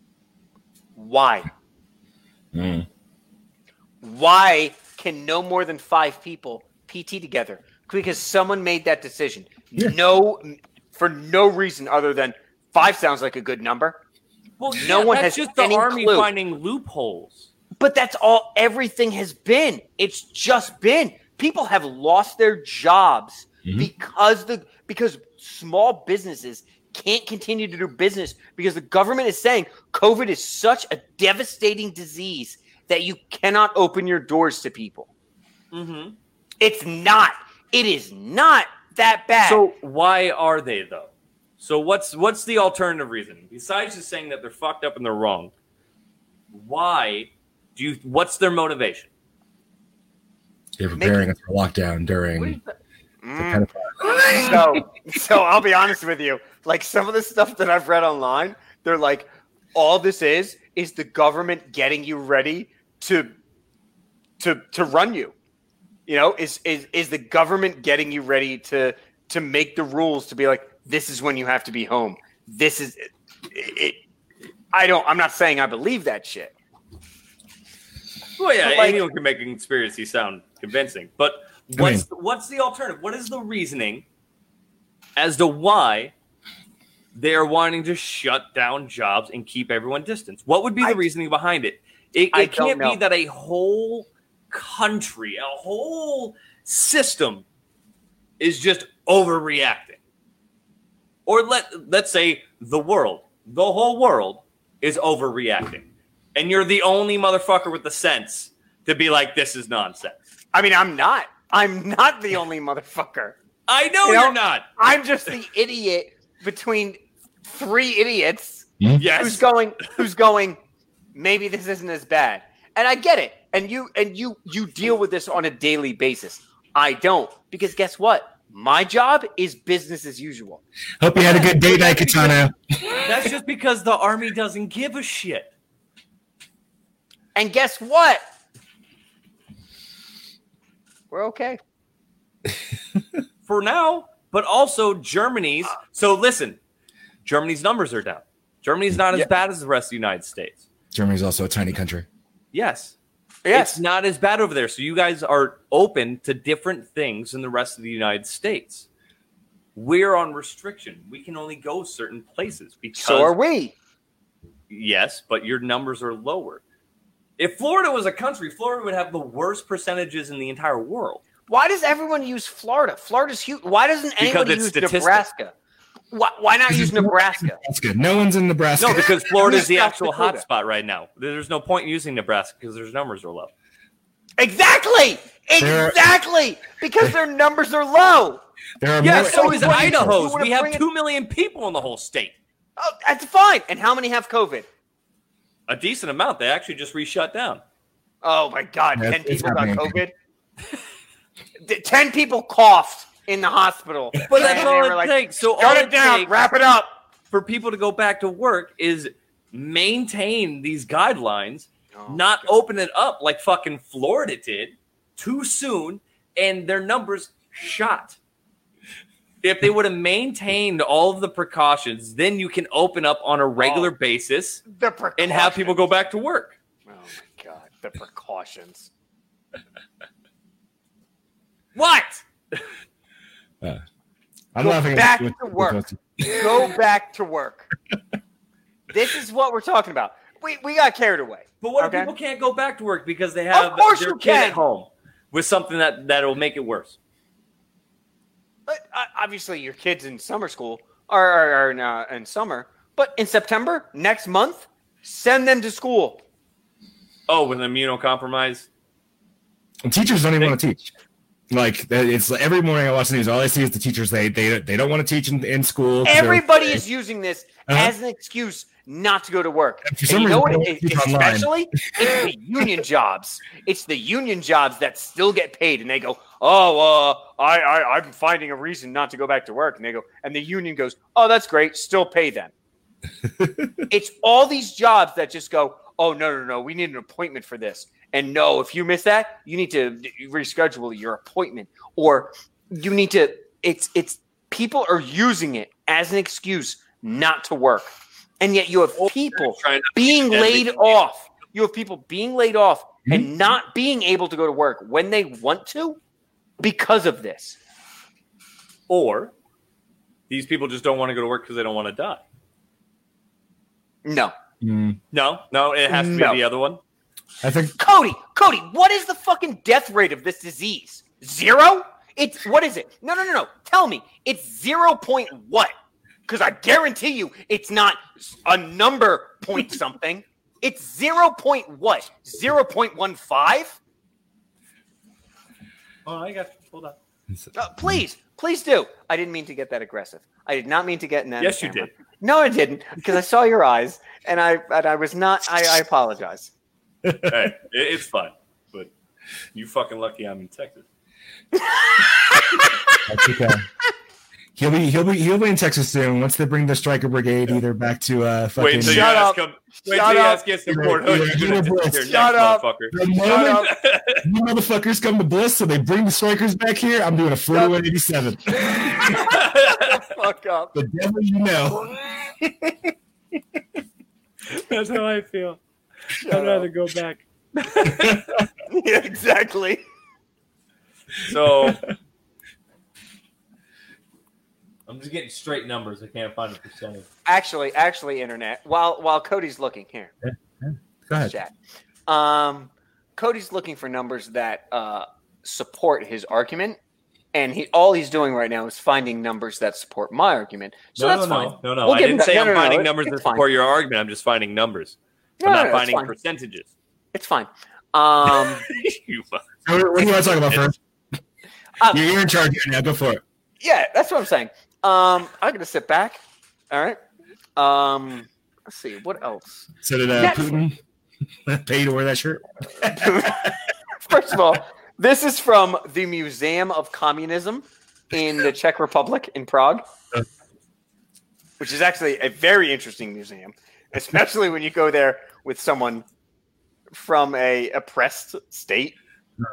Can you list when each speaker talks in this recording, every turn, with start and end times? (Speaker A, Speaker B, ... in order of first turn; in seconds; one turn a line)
Speaker A: 0.9-1.5
Speaker B: 2.5-2.9
Speaker A: 4.0-14.0
Speaker C: 14.6-17.5
Speaker A: 14.7-16.3
Speaker A: 17.8-35.1
Speaker C: 35.7-36.1
Speaker A: 36.6-39.6
Speaker C: 39.4-45.5
Speaker C: 46.5-49.1
Speaker B: 50.8-52.6
Speaker A: 50.9-51.2
Speaker A: 52.4-63.3
Speaker B: 53.4-54.8
Speaker A: 64.4-65.3
Speaker A: 66.1-74.0
Speaker A: 74.7-76.5
Speaker C: 78.4-84.0
Speaker A: 78.6-79.0
Speaker B: 81.7-82.0
Speaker C: 85.2-86.1
Speaker C: 87.1-97.4
Speaker A: 92.3-93.0
Speaker C: 98.4-100.0
Speaker C: 101.2-110.2
Speaker A: 110.5-113.4
Speaker C: 113.7-114.7
Speaker A: 114.0-120.6
Speaker C: 119.0-119.5
Speaker A: 121.1-130.6
Speaker B: 131.0-133.3
Speaker A: 131.2-132.3
Speaker C: 133.0-135.5
Speaker A: 137.3-138.2
Speaker A: 141.1-141.6
Speaker C: 143.4-146.6
Speaker C: 147.2-150.7
Speaker B: 150.9-152.1
Speaker C: 152.5-152.9
Speaker A: 153.4-153.8
Speaker C: 153.5-158.9
Speaker C: 159.7-163.3
Speaker A: 163.0-163.7
Speaker C: 164.7-166.6
Speaker C: 167.4-171.2
Speaker A: 171.5-175.5
Speaker C: 174.2-175.2
Speaker A: 176.1-177.6
Speaker B: 176.7-179.2
Speaker C: 178.8-183.5
Speaker A: 179.3-180.4
Speaker A: 184.4-188.4
Speaker B: 185.6-186.0
Speaker B: 188.8-190.2
Speaker C: 189.0-192.3
Speaker A: 189.0-190.8
Speaker A: 192.8-194.7
Speaker C: 195.7-197.6
Speaker A: 198.2-200.1
Speaker B: 198.9-200.0
Speaker A: 201.6-206.9
Speaker B: 204.2-204.5
Speaker C: 204.3-206.3
Speaker C: 207.3-218.2
Speaker A: 211.9-212.5
Speaker C: 219.4-224.6
Speaker A: 223.6-223.9
Speaker A: 224.7-225.8
Speaker C: 225.2-226.6
Speaker A: 226.8-228.9
Speaker A: 231.8-232.2
Speaker B: 234.5-236.7
Speaker A: 234.6-237.7
Speaker A: 238.9-242.1
Speaker C: 241.6-247.0
Speaker A: 243.5-244.6
Speaker A: 248.7-256.2
Speaker C: 257.3-258.7
Speaker B: 259.8-260.9
Speaker B: 261.5-266.8
Speaker A: 266.0-282.5
Speaker B: 267.7-267.9
Speaker B: 269.8-271.5
Speaker B: 283.4-283.7
Speaker A: 283.9-306.0
Speaker C: 299.0-301.0
Speaker A: 306.6-307.6
Speaker C: 308.9-309.3
Speaker C: 310.3-312.2
Speaker A: 314.0-314.3
Speaker B: 314.6-315.0
Speaker C: 315.1-316.8
Speaker A: 315.9-316.4
Speaker B: 317.4-317.7
Speaker A: 317.8-325.7
Speaker A: 326.3-333.8
Speaker C: 336.1-337.0
Speaker A: 337.5-346.5
Speaker C: 341.4-341.9
Speaker B: 347.0-347.3
Speaker C: 347.3-348.9
Speaker C: 349.5-350.9
Speaker A: 351.5-353.0
Speaker B: 353.1-353.7
Speaker B: 354.6-359.1
Speaker C: 358.6-364.2
Speaker A: 358.8-361.0
Speaker B: 360.7-362.1
Speaker A: 362.0-362.6
Speaker B: 362.9-369.2
Speaker A: 363.2-363.7
Speaker A: 368.8-370.7
Speaker C: 369.3-369.8
Speaker B: 370.7-372.9
Speaker C: 374.4-375.6
Speaker A: 376.2-376.7
Speaker C: 376.3-378.4
Speaker A: 378.7-379.8
Speaker C: 381.2-381.8
Speaker C: 384.9-387.1
Speaker A: 387.3-390.1
Speaker B: 390.2-391.3
Speaker A: 391.3-391.5
Speaker A: 392.1-396.8
Speaker A: 397.3-403.4
Speaker C: 401.0-406.7
Speaker A: 405.4-406.1
Speaker A: 407.1-408.6
Speaker C: 408.3-409.5
Speaker B: 409.6-410.8
Speaker B: 411.9-413.2
Speaker A: 413.6-416.2
Speaker A: 416.7-417.0
Speaker A: 417.6-420.6
Speaker B: 419.8-420.8
Speaker B: 421.4-423.6
Speaker A: 422.8-423.5
Speaker A: 424.1-429.8
Speaker A: 431.6-436.0
Speaker A: 436.9-438.9